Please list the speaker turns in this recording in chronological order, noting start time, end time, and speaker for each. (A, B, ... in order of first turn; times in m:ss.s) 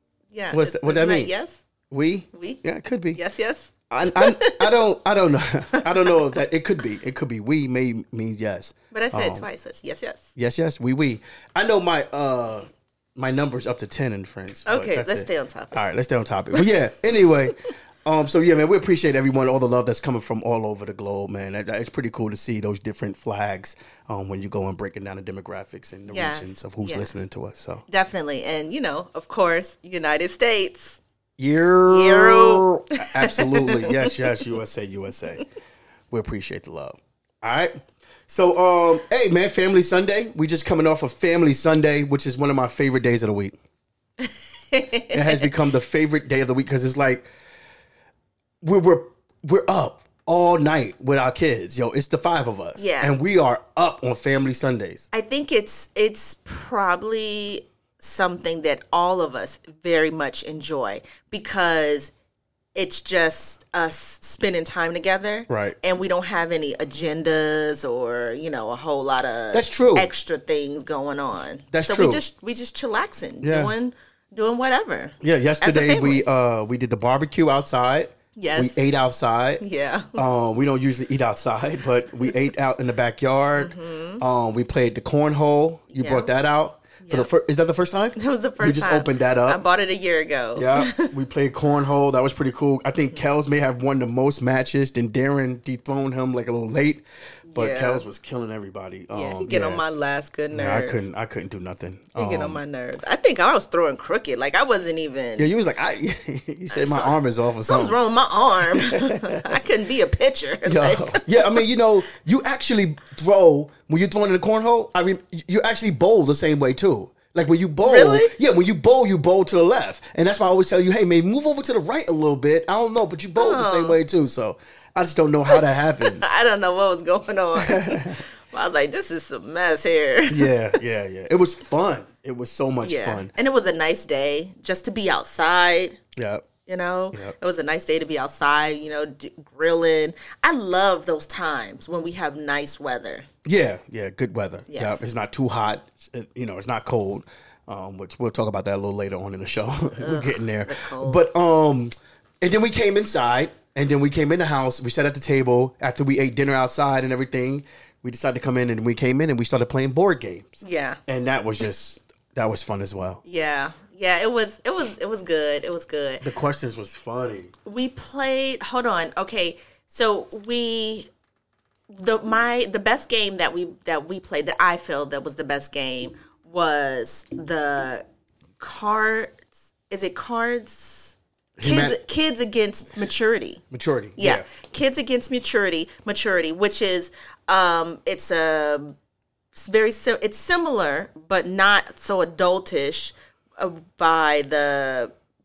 0:00.3-0:01.6 A
0:00.5-0:01.3 B
0:01.9-0:03.2 B
0:02.3-0:02.6 A
0:03.1-0:04.7 A
0:03.9-0:09.4 B
0:05.7-0:06.3 A
0:08.9-0:10.3 A
0:10.4-0:27.8 B
0:14.6-0:15.8 A
0:16.5-0:17.5 A
0:26.1-0:27.1 A
0:27.9-0:31.0 A
0:31.4-0:35.4 B
0:31.9-0:34.3 A
0:36.1-0:37.7 B
0:38.3-0:43.6 B
0:44.2-0:45.5 A
0:45.1-0:47.3 B
0:48.6-0:55.1 B
0:52.8-0:53.1 A
0:55.1-1:02.1 A
1:02.7-1:16.2 A
1:05.5-1:05.8 B
1:09.5-1:10.1 B
1:11.7-1:12.2 B
1:13.4-1:13.7 B
1:15.2-1:19.6 B
1:18.4-1:18.8 A
1:19.6-1:20.2 A
1:20.1-1:29.6 B
1:23.6-1:24.2 A
1:25.9-1:26.3 A
1:27.0-1:27.3 A
1:28.2-1:31.1 A
1:30.6-1:39.8 B
1:37.5-1:38.0 A
1:39.1-1:41.0 A
1:40.5-1:42.6 B
1:42.2-1:45.5 A
1:45.4-1:48.0 B
1:46.7-1:51.6 A
1:48.6-1:49.6 B
1:50.6-2:06.3 B
1:57.8-1:58.3 A
2:03.4-2:04.0 A
2:05.5-2:10.8 A
2:07.5-2:08.2 B
2:10.3-2:13.3 B
2:12.8-2:16.0 A
2:16.2-2:16.5 B
2:16.6-2:23.3 A
2:23.4-2:43.2 B
2:24.7-2:25.0 A
2:30.0-2:31.2 A
2:40.6-2:41.0 A
2:43.2-2:46.2 A
2:46.2-2:47.5 B
2:47.6-2:51.1 A
2:51.9-2:58.0 A
2:58.6-3:03.6 A
3:01.6-3:02.0 B
3:03.7-3:04.4 B
3:04.2-3:09.0 A
3:09.5-3:15.1 A